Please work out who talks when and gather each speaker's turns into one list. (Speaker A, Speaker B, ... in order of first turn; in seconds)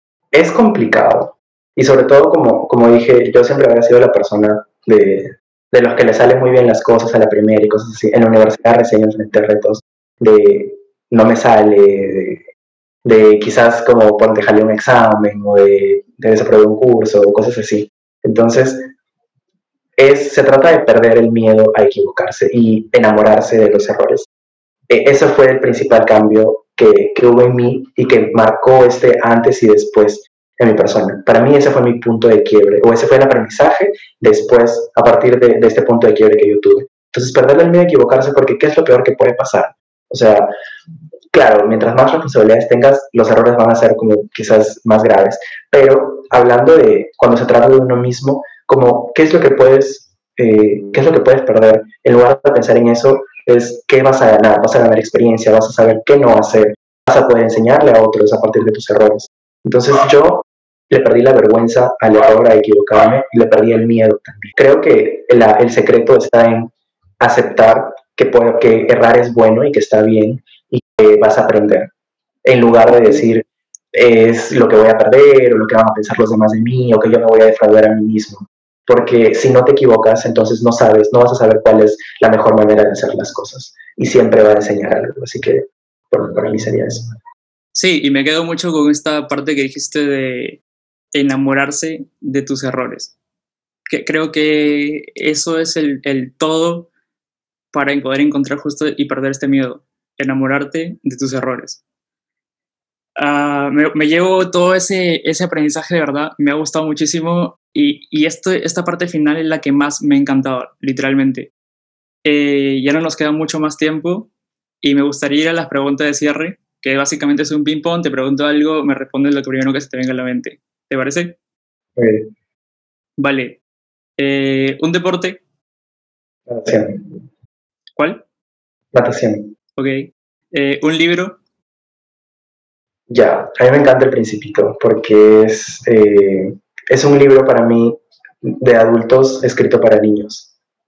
Speaker A: 0.3-12.4, 13.0-18.9, 20.0-24.3, 24.9-40.5, 41.3-71.9, 72.4-87.2, 122.0-122.3, 126.5-127.2, 128.9-129.5, 133.1-140.5
Speaker B: 87.7-90.6, 91.1-93.1, 93.9-96.9, 97.7-101.8, 103.2-111.5, 112.2-114.3, 114.8-121.4, 123.2-123.6, 124.2-125.4, 128.0-128.2, 129.8-131.4